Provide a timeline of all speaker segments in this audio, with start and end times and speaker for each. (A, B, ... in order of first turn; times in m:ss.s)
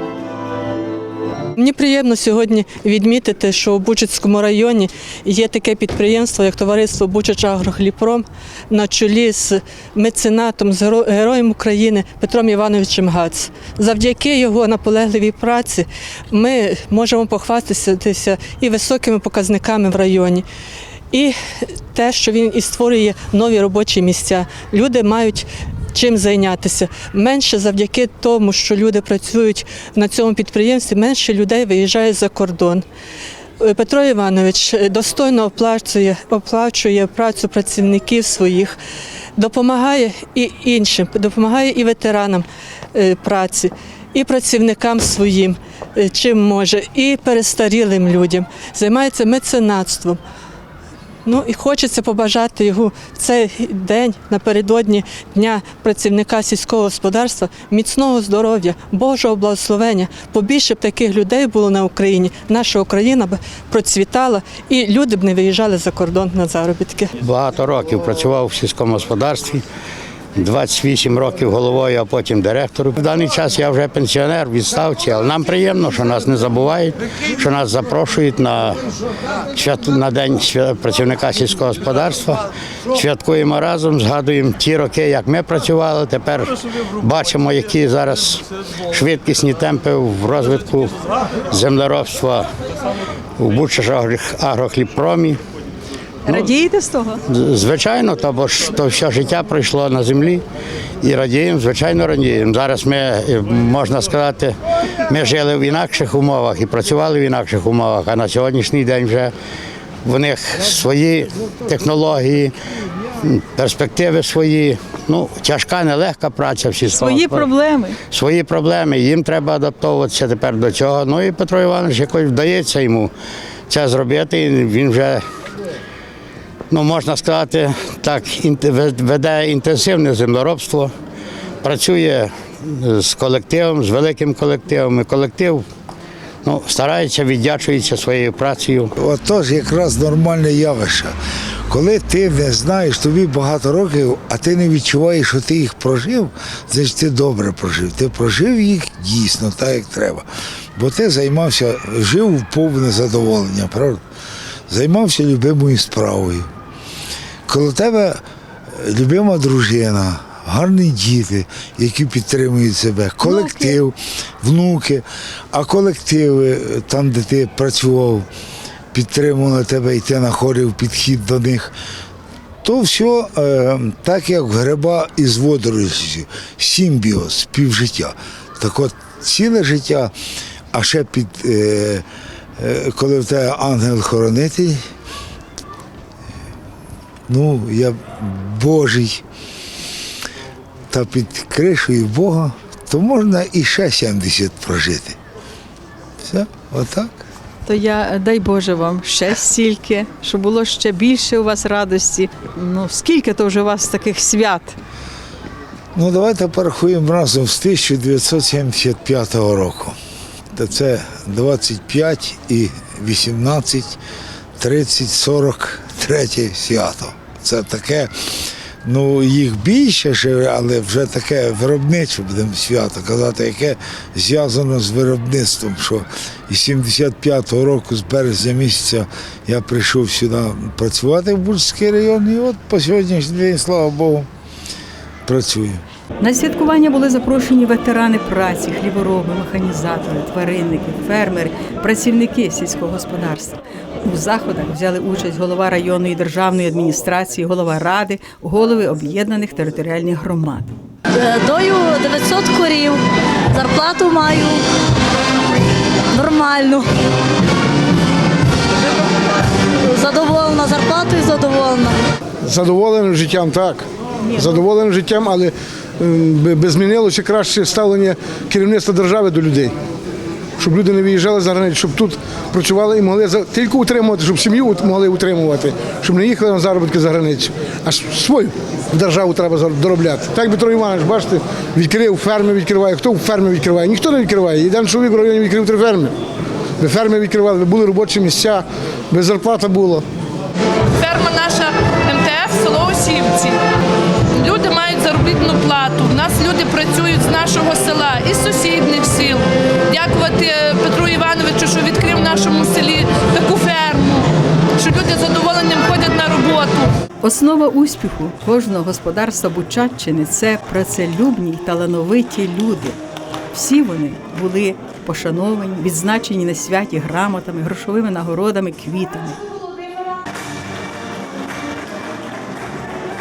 0:01.6-0:20.4 A
0:21.1-0:32.8 A
0:33.6-0:38.8 A
0:39.4-0:50.2 A
0:51.2-1:07.1 A
1:07.2-1:09.6 B
1:10.3-1:18.8 B
1:19.5-1:30.9 B
1:31.5-1:32.5 B
1:33.4-1:35.4 B
1:36.2-1:37.2 C
1:37.3-1:40.4 B
1:41.0-1:44.5 B
1:45.1-1:49.3 B
1:50.0-1:52.5 B
1:53.2-1:57.5 B
1:56.9-1:58.0 C
1:58.1-2:03.1 B
2:03.7-2:05.2 B
2:06.7-2:10.9 B
2:11.6-2:15.6 B
2:16.4-2:18.9 B
2:19.0-2:21.1 D
2:21.7-2:34.0 D
2:34.7-2:36.5 D
2:37.4-2:48.3 D
2:43.2-2:43.8 C
2:48.9-2:51.7 D
2:52.6-3:00.1 D
3:00.7-3:02.0 D
3:02.6-3:04.8 D
3:07.3-3:09.2 D
3:10.9-3:15.2 D
3:16.2-3:17.2 D
3:17.6-3:24.8 C
3:25.9-3:30.0 D
3:30.5-3:34.0 D
3:34.6-3:38.3 D
3:38.8-3:54.3 D
3:55.2-3:55.8 D
3:56.2-4:10.7 C
4:11.2-4:13.0 E
4:13.5-4:14.6 E
4:16.1-4:16.8 E
4:19.9-4:21.9 E
4:22.4-4:29.7 F
4:30.6-4:46.1 F
4:46.8-4:50.0 F
4:51.0-4:53.6 G
4:54.4-5:04.2 G
5:04.8-5:06.9 G
5:07.2-5:13.0 C
5:13.5-5:19.4 C